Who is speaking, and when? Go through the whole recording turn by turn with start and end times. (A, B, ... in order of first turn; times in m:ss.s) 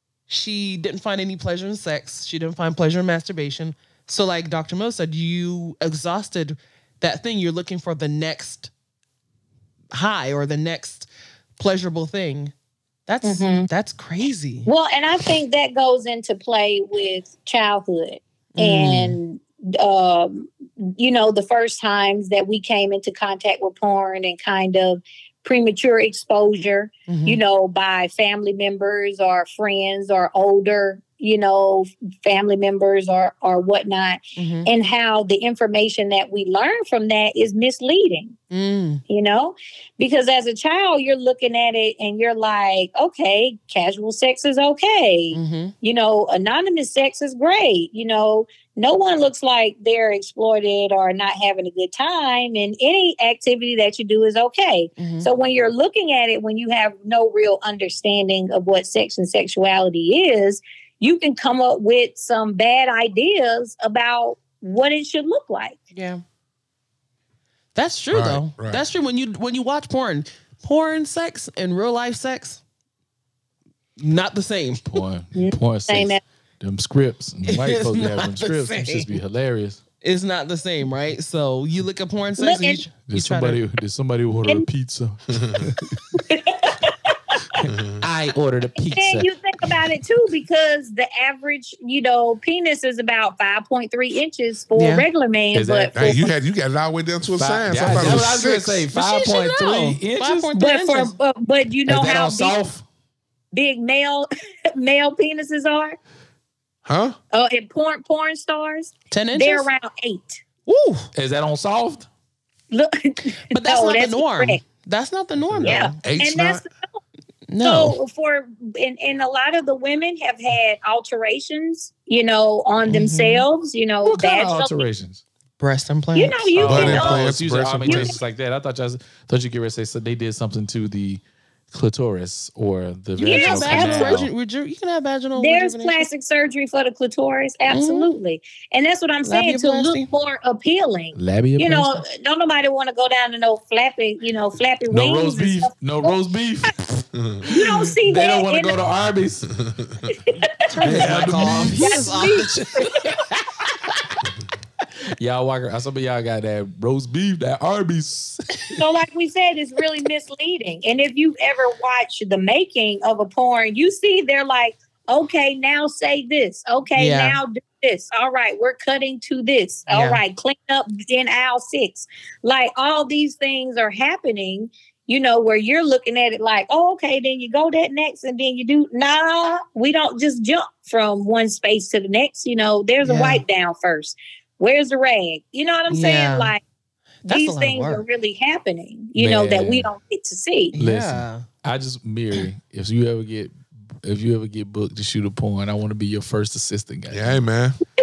0:00.3-0:08.7 A
0:09.9-0:12.5 A
0:13.1-0:14.7 A
0:13.2-0:13.7 B
0:14.7-0:38.4 B
0:18.6-0:19.2 A
0:27.1-0:27.4 A
0:34.4-0:34.7 A
0:38.5-0:39.0 A
0:39.1-1:05.8 B
0:45.3-0:45.7 A
0:55.0-0:55.3 A
1:05.9-1:06.2 A
1:07.8-1:12.6 A
1:08.1-1:08.8 C
1:14.0-1:15.0 A
1:14.8-1:19.8 D
1:15.4-1:16.2 B
1:17.4-1:19.2 A
1:20.0-1:23.6 A
1:22.4-1:22.8 B
1:23.1-1:26.2 D
1:25.3-1:25.7 C
1:26.2-1:27.6 B
1:27.6-1:29.3 D
1:27.7-1:28.0 C
1:28.8-1:36.3 B
1:34.8-1:35.1 A
1:35.5-1:36.2 D
1:36.0-1:38.9 C
1:37.4-1:40.5 D
1:39.0-1:41.1 A
1:40.5-1:42.6 B
1:41.9-1:42.8 D
1:43.5-1:46.0 B
1:46.8-1:47.2 C
1:47.3-1:50.4 B
1:49.1-1:49.7 A
1:50.7-1:51.1 A
1:51.1-1:52.1 D
1:52.7-1:54.6 B
1:53.5-1:56.0 A
1:55.5-1:55.8 D
1:55.6-1:56.8 B
1:56.0-1:56.6 C
1:57.5-1:58.0 A
1:57.6-2:04.8 B
2:02.9-2:03.5 A
2:04.0-2:05.2 D
2:05.6-2:06.9 A
2:06.2-2:07.3 B
2:06.6-2:14.3 D
2:06.6-2:08.2 C
2:07.8-2:08.2 B
2:13.2-2:16.1 A
2:13.2-2:14.2 B
2:15.4-2:26.2 B
2:17.7-2:18.1 A
2:19.2-2:20.1 A
2:21.2-2:22.0 D
2:24.9-2:29.6 D
2:27.2-2:27.4 C
2:27.4-2:28.8 B
2:29.6-2:30.1 C
2:30.1-2:33.2 B
2:30.7-2:33.1 A
2:30.8-2:34.1 D
2:35.1-2:38.8 D
2:38.8-3:06.6 B
2:47.0-2:47.4 A
2:49.9-2:50.2 A
3:03.0-3:03.4 A
3:05.9-3:06.5 A
3:07.2-3:08.0 A
3:07.3-3:10.8 B
3:09.2-3:09.9 D
3:10.7-3:11.5 A
3:10.8-3:17.5 D
3:17.1-3:17.8 C